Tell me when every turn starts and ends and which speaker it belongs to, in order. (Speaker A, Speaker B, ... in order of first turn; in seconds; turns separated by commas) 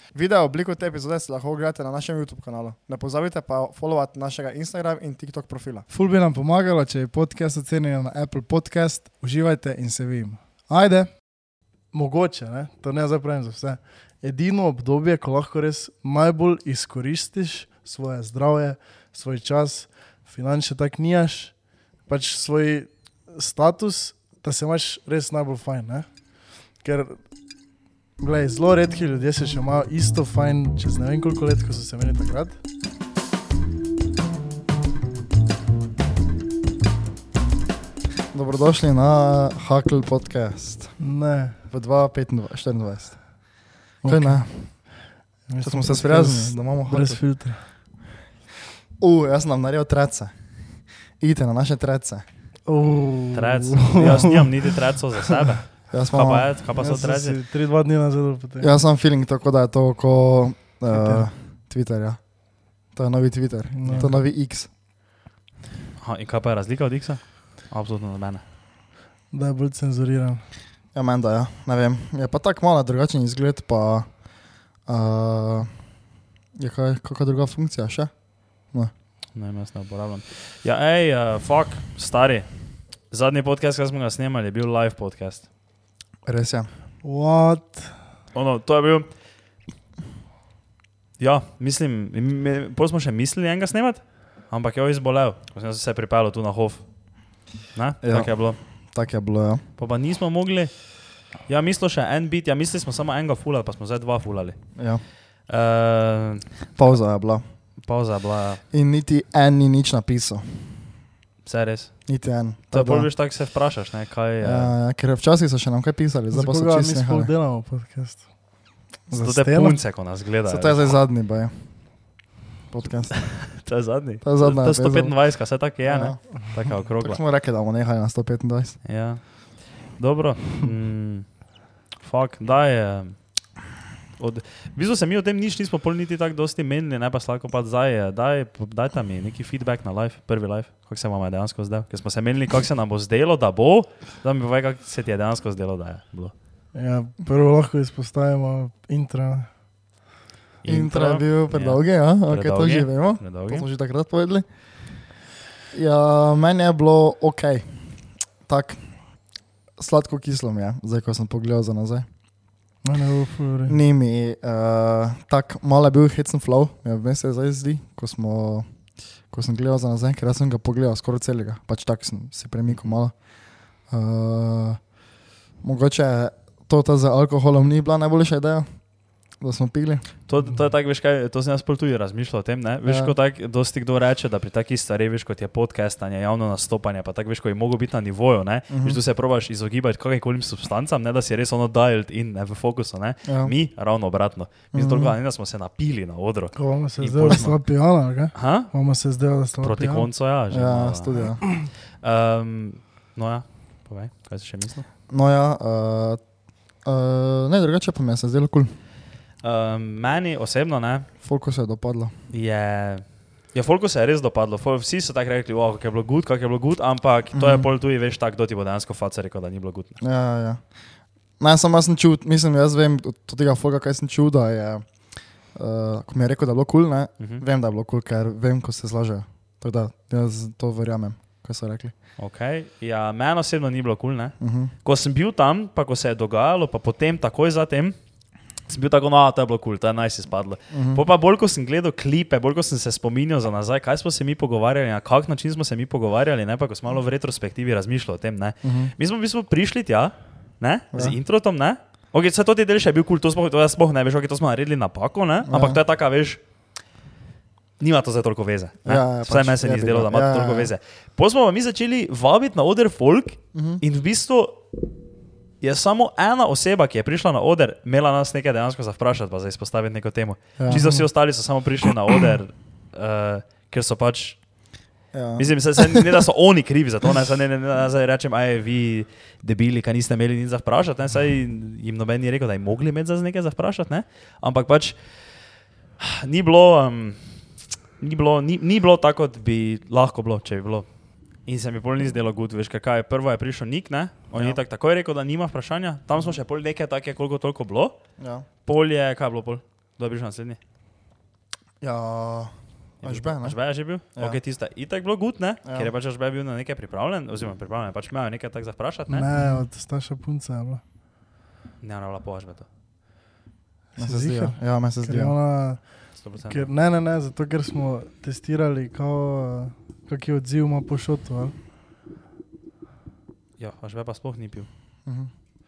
Speaker A: 0.1-5.9, Speaker B: 5.9-11.2, Speaker B: 11.9-26.2, Speaker B: 26.7-27.2, Speaker B: 28.2-32.6, Speaker A: 38.3-41.0, Speaker B: 41.0-41.5, Speaker A: 41.7-47.4, Speaker B: 44.0-44.9, Speaker B: 45.5-47.6, Speaker A: 49.0-52.3, Speaker B: 52.6-54.5, Speaker C: 53.3-57.4, Speaker A: 55.9-56.6, Speaker B: 56.7-58.8, Speaker A: 58.6-64.7, Speaker B: 60.9-61.3, Speaker B: 63.7-64.1, Speaker C: 66.0-68.4, Speaker B: 69.3-70.4, Speaker A: 70.9-75.9, Speaker A: 76.5-78.9, Speaker C: 79.3-85.5, Speaker A: 86.2-86.7, Speaker B: 87.0-88.0, Speaker C: 88.3-89.1, Speaker C: 91.2-98.6, Speaker A: 98.0-99.7, Speaker C: 99.8-104.8, Speaker A: 104.8-105.0, Speaker C: 105.4-107.0, Speaker A: 106.7-107.8, Speaker C: 107.6-108.6, Speaker A: 108.7-110.9, Speaker C: 111.4-112.2, Speaker A: 112.1-113.1, Speaker C: 112.7-114.7, Speaker A: 114.4-117.3, Speaker B: 116.3-118.5, Speaker B: 119.1-119.8, Speaker C: 119.1-121.0, Speaker A: 120.5-122.1, Speaker A: 122.7-123.5, Speaker C: 123.4-127.2, Speaker A: 124.2-128.8, Speaker C: 128.8-133.6, Speaker C: 134.2-146.3, Speaker B: 146.7-149.5, Speaker C: 150.6-153.7, Speaker A: 150.7-154.4, Speaker A: 155.7-159.2, Speaker A: 159.8-162.1, Speaker B: 162.8-163.8, Speaker A: 163.7-174.9, Speaker C: 172.7-172.9, Speaker A: 175.6-180.2, Speaker C: 180.2-197.6, Speaker A: 182.8-183.1, Speaker A: 188.7-189.0, Speaker A: 193.3-193.5, Speaker A: 194.7-195.1, Speaker B: 196.5-200.1, Speaker C: 198.3-198.7, Speaker C: 199.6-204.8, Speaker A: 200.5-201.5, Speaker A: 205.1-208.7, Speaker C: 209.4-211.1, Speaker A: 211.2-212.2, Speaker C: 212.3-219.9, Speaker A: 217.3-217.7, Speaker A: 220.0-231.9, Speaker C: 232.2-256.4, Speaker A: 234.4-234.7, Speaker A: 240.7-241.0, Speaker A: 248.6-248.9, Speaker A: 255.5-255.8, Speaker C: 257.8-264.6, Speaker A: 258.8-260.7, Speaker A: 263.5-263.8, Speaker C: 265.6-274.4, Speaker A: 270.6-270.9, Speaker B: 270.7-271.0, Speaker A: 275.1-276.1, Speaker C: 275.4-285.4, Speaker C: 286.0-290.9, Speaker C: 291.4-298.0, Speaker A: 294.3-294.6, Speaker A: 298.2-298.4, Speaker C: 298.6-300.6, Speaker A: 301.8-304.4, Speaker C: 303.0-309.3, Speaker A: 305.6-305.9, Speaker B: 309.1-310.8, Speaker A: 309.3-309.6, Speaker C: 311.8-312.7, Speaker B: 313.9-321.5, Speaker A: 314.0-315.3, Speaker C: 316.1-316.7, Speaker C: 323.6-324.7, Speaker A: 325.1-325.3